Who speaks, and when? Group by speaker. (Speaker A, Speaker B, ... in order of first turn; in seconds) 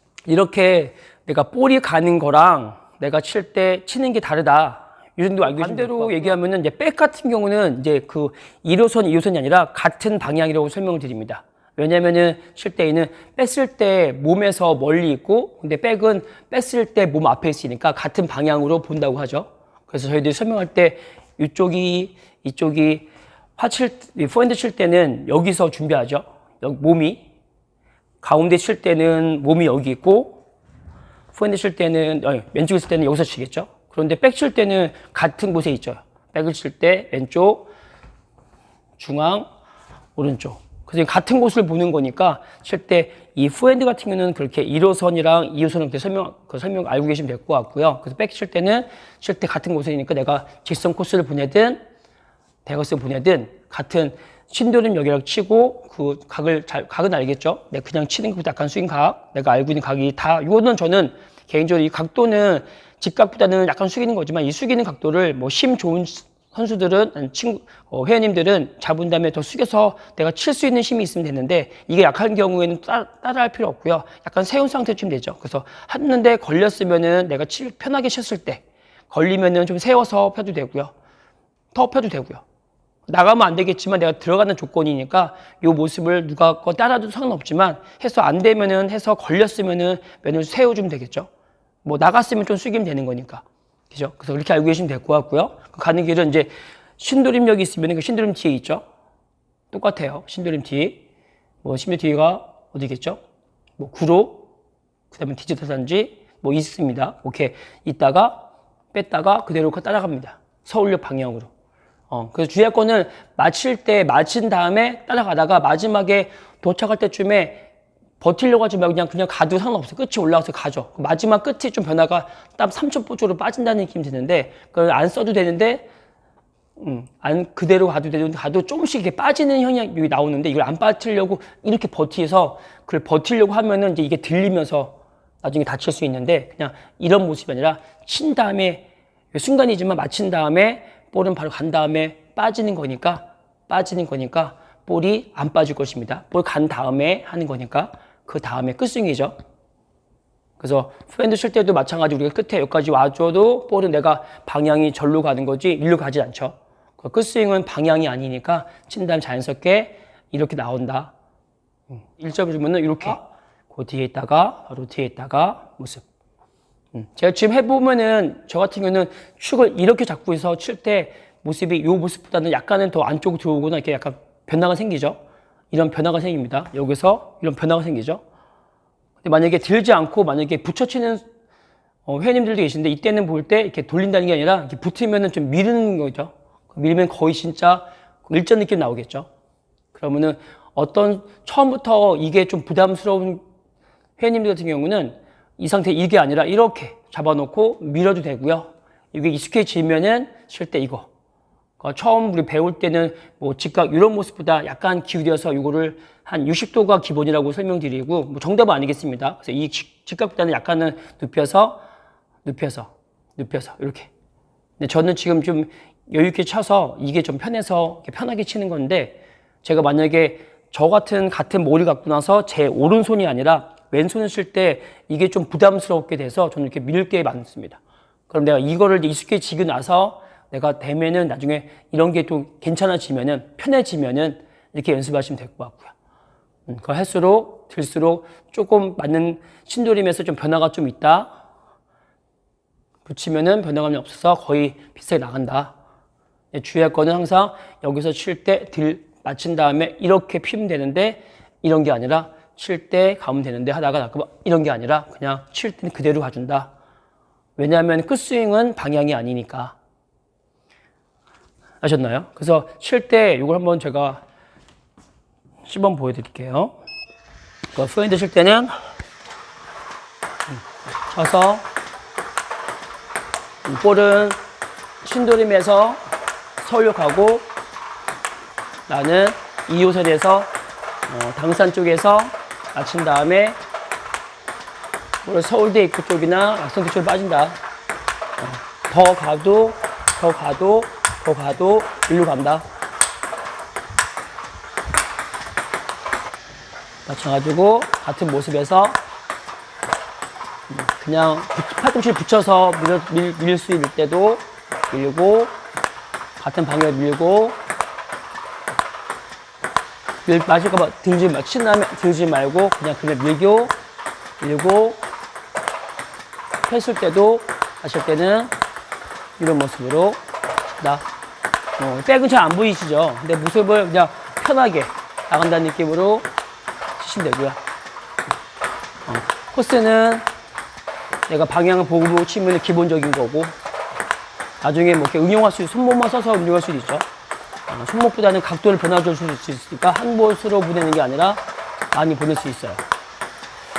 Speaker A: 0.3-27.3, 28.2-30.4, 31.3-37.7, 39.0-39.5, 40.2-51.8, 52.6-80.9, 81.7-82.4, 83.1-91.3, 91.8-98.8, 99.7-101.0, 101.6-103.2, 103.8-104.5, 105.1-111.5, 112.1-125.9, 126.8-149.3, 150.6-161.1, 162.0-166.1, 166.9-175.2, 175.7-178.2, 179.2-181.2, 182.1-189.3, 189.9-193.4, 194.2-201.1, 201.8-211.8, 212.4-214.1, 214.8-235.9, 236.7-241.4, 243.1-245.8, 246.5-256.7, 257.6-259.8, 261.8-264.2, 265.7-266.8, 267.7-268.8, 270.5-271.7, 273.6-274.4, 275.0-276.1, 276.6-277.5, 278.9-280.5, 281.1-283.6, 285.2-287.6, 288.4-292.7, 297.1-299.0, 300.7-305.6, 306.4-307.6, 310.3-313.8, 314.4-315.0, 316.7-318.5, 319.4-321.1, 321.8-326.3, 327.0-327.6, 329.1-330.3, 331.3-333.6, 334.6-337.1, 337.7-342.9